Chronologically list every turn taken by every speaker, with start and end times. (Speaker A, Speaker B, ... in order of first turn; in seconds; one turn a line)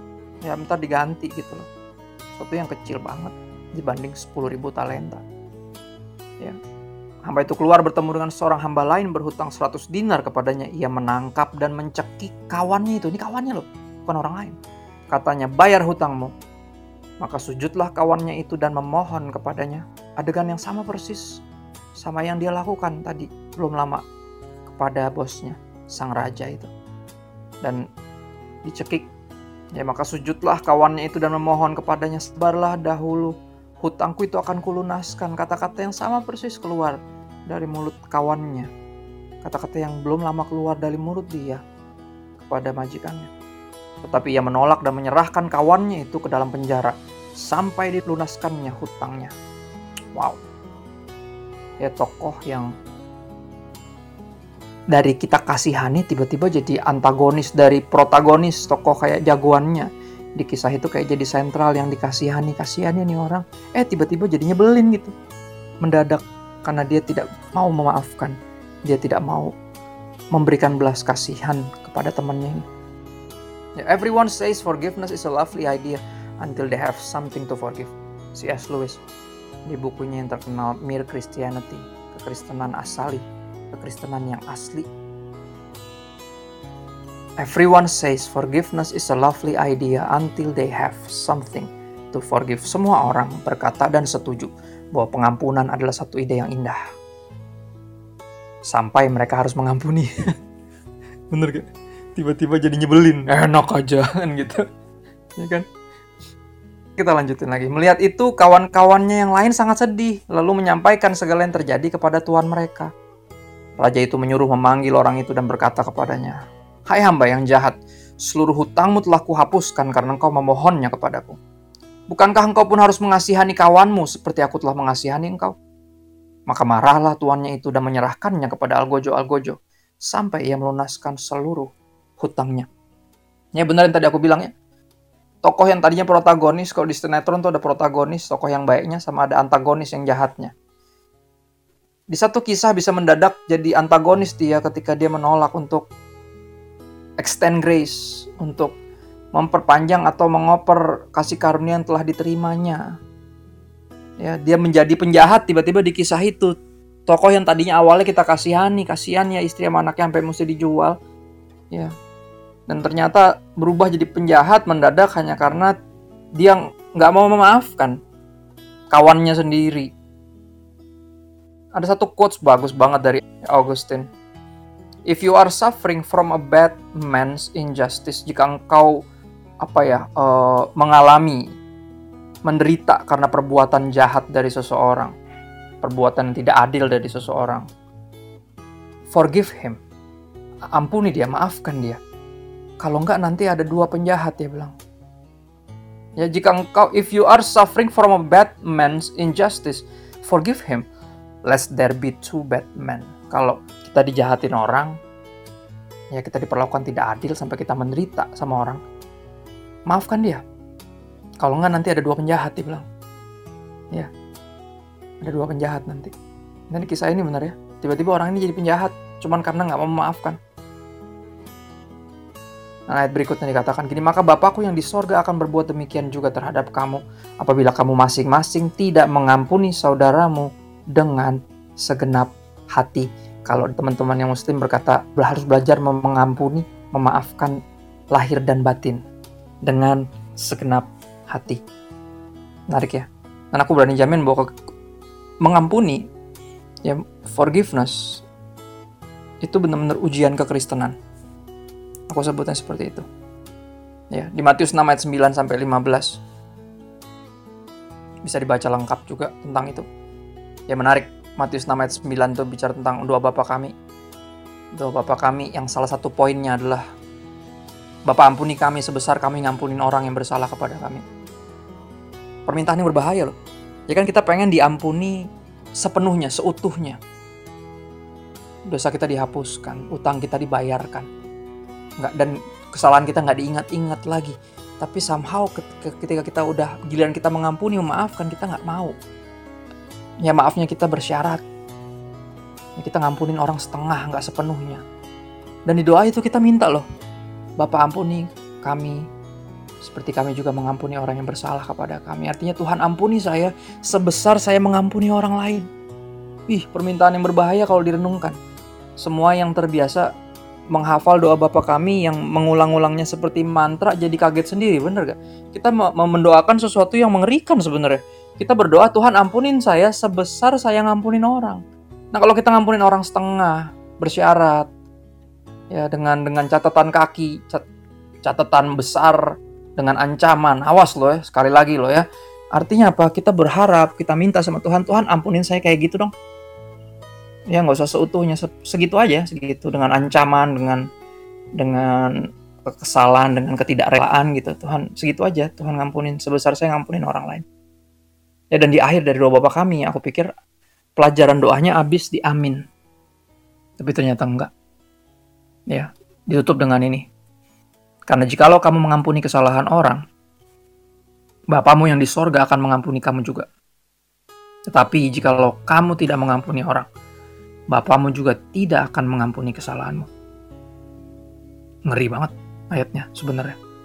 Speaker A: 0.4-1.7
Speaker A: 2.4-5.2
Speaker A: 7.2-14.6
Speaker A: 15.1-16.3
Speaker A: 17.2-21.4
Speaker A: 22.0-24.0
Speaker A: 24.7-26.7
Speaker A: 28.7-29.1
Speaker A: 29.8-38.7
Speaker A: 39.4-41.6
Speaker A: 42.4-43.3
Speaker A: 44.0-49.3
Speaker A: 50.1-50.4
Speaker A: 51.8-52.7
Speaker A: 54.9-65.1
Speaker A: 65.8-68.4
Speaker A: 68.9-69.5
Speaker A: 70.3-72.6
Speaker A: 73.8-79.0
Speaker A: 79.7-84.9
Speaker A: 87.4-96.8
Speaker A: 98.7-100.1
Speaker A: 101.3-104.6
Speaker A: 105.4-105.7
Speaker A: 107.0-112.9
Speaker A: 113.8-116.4
Speaker A: 116.9-121.4
Speaker A: 122.1-125.5
Speaker A: 126.5-129.6
Speaker A: 130.1-132.7
Speaker A: 133.6-134.5
Speaker A: 135.4-140.5
Speaker A: 142.1-145.9
Speaker A: 147.2-148.8
Speaker A: 149.3-152.8
Speaker A: 154.2-156.5
Speaker A: 157.1-161.0
Speaker A: 162.7-165.7
Speaker A: 166.4-168.0
Speaker A: 168.9-169.9
Speaker A: 171.8-174.1
Speaker A: 175.1-179.0
Speaker A: 179.6-181.4
Speaker A: 182.4-185.1
Speaker A: 185.8-187.7
Speaker A: 189.1-189.8
Speaker A: 190.8-192.0
Speaker A: 192.8-194.7
Speaker A: 196.2-200.8
Speaker A: 201.5-204.9
Speaker A: 206.1-208.8
Speaker A: 209.9-210.4
Speaker A: 211.4-212.8
Speaker A: 215.2-216.1
Speaker A: 216.7-220.4
Speaker A: 222.9-237.6
Speaker A: 238.1-239.0
Speaker A: 239.7-241.6
Speaker A: 242.7-244.5
Speaker A: 245.4-246.0
Speaker A: 246.8-248.0
Speaker A: 249.4-250.9
Speaker A: 252.1-253.0
Speaker A: 254.1-256.2
Speaker A: 258.2-259.9
Speaker A: 260.7-263.7
Speaker A: 264.8-266.8
Speaker A: 268.1-271.0
Speaker A: 272.5-273.3
Speaker A: 273.9-275.2
Speaker A: 275.8-277.0
Speaker A: 278.7-281.1
Speaker A: 282.0-288.9
Speaker A: 290.2-291.4
Speaker A: 292.8-294.8
Speaker A: 295.7-296.9
Speaker A: 297.6-299.0
Speaker A: 299.8-305.7
Speaker A: 306.5-308.4
Speaker A: 309.0-310.1
Speaker A: 310.7-321.6
Speaker A: 322.1-324.7
Speaker A: 325.7-327.6
Speaker A: 328.2-329.2
Speaker A: 329.8-332.0
Speaker A: 332.5-336.1
Speaker A: 337.5-340.8
Speaker A: 341.6-347.4
Speaker A: 348.5-350.3
Speaker A: 351.0-352.6
Speaker A: 353.8-354.5
Speaker A: 355.7-357.0
Speaker A: 358.1-360.0
Speaker A: 361.5-363.5
Speaker A: 364.7-366.9
Speaker A: 367.7-370.1
Speaker A: 371.9-373.6